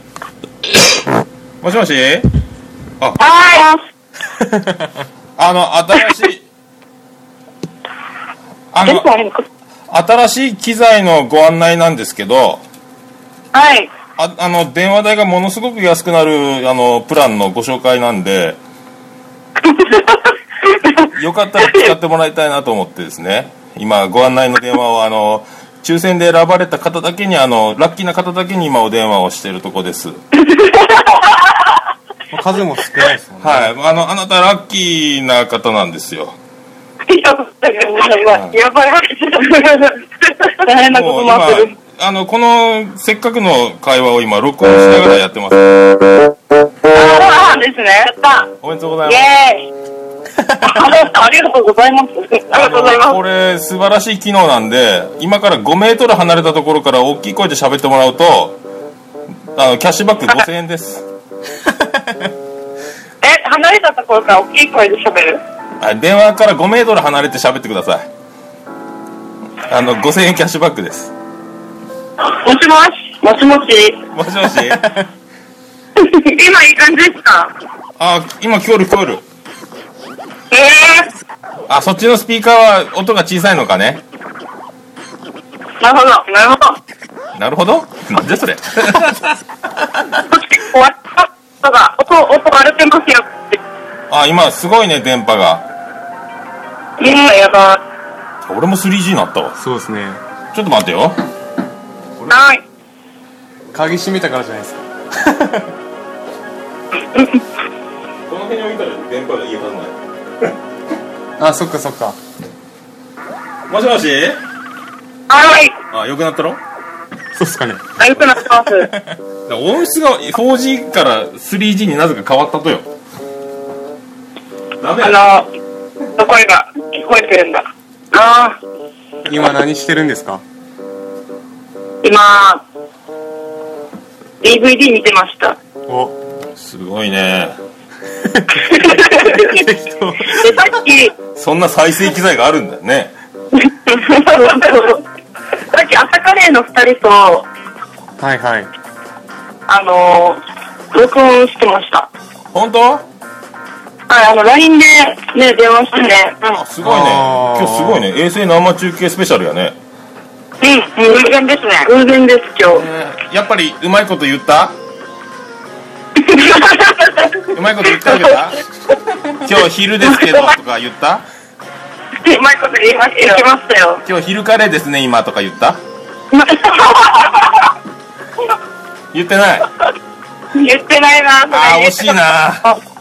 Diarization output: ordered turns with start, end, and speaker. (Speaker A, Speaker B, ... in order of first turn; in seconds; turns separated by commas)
Speaker A: 1.6-2.3, Speaker B: 3.2-3.8, Speaker C: 4.5-4.9, Speaker A: 5.4-6.4, Speaker A: 8.7-9.1, Speaker B: 8.8-9.4, Speaker A: 9.9-12.6, Speaker B: 13.5-13.9, Speaker A: 14.2-18.6, Speaker B: 19.6-21.1, Speaker A: 21.1-30.2, Speaker B: 21.6-21.9, Speaker B: 30.4-31.5, Speaker C: 32.3-33.7, Speaker A: 33.4-36.4, Speaker B: 37.1-41.7, Speaker A: 38.3-38.6, Speaker A: 40.8-45.7, Speaker B: 46.9-48.5, Speaker A: 47.0-47.3, Speaker A: 48.6-49.3, Speaker B: 49.0-49.7, Speaker B: 50.6-53.2, Speaker A: 52.5-58.6, Speaker A: 59.5-61.0, Speaker B: 63.2-65.4, Speaker A: 65.8-68.1, Speaker A: 69.6-71.1, Speaker B: 72.2-74.0, Speaker A: 74.1-74.9, Speaker B: 76.0-77.5, Speaker A: 78.0-79.2, Speaker B: 80.5-81.1, Speaker A: 81.7-84.0, Speaker B: 85.8-86.8, Speaker A: 87.3-89.3, Speaker B: 90.3-93.6, Speaker A: 94.1-95.7, Speaker B: 97.0-97.8, Speaker A: 98.4-99.5, Speaker C: 99.5-100.2, Speaker A: 100.5-101.2, Speaker B: 102.3-102.6, Speaker C: 103.7-105.7, Speaker B: 107.1-107.4, Speaker A: 108.3-110.5, Speaker C: 111.4-112.2, Speaker A: 113.7-114.4, Speaker B: 115.3-115.8, Speaker A: 115.9-116.6, Speaker C: 117.3-117.9, Speaker B: 118.0-118.9, Speaker A: 119.5-122.9, Speaker A: 124.8-125.3, Speaker B: 125.0-125.5, Speaker B: 126.2-128.6, Speaker C: 129.3-130.4, Speaker B: 132.0-132.6, Speaker B: 134.4-135.6, Speaker C: 135.9-136.2, Speaker A: 136.6-137.6, Speaker C: 138.2-140.8, Speaker B: 138.6-139.6, Speaker B: 140.3-141.1, Speaker A: 141.3-143.1, Speaker B: 143.5-145.0, Speaker B: 145.7-147.5, Speaker C: 148.2-148.7, Speaker B: 149.7-150.4, Speaker B: 150.9-152.1, Speaker A: 152.5-153.0, Speaker B: 154.1-156.5, Speaker A: 156.5-159.8, Speaker C: 156.8-158.1, Speaker B: 160.6-162.8, Speaker A: 162.7-164.8, Speaker B: 166.2-167.5, Speaker A: 167.5-168.6, Speaker A: 169.3-171.2, Speaker B: 170.0-170.5, Speaker B: 172.2-174.0, Speaker A: 174.0-175.8, Speaker B: 176.3-177.7, Speaker A: 179.1-179.7, Speaker B: 180.5-182.8, Speaker A: 181.5-182.7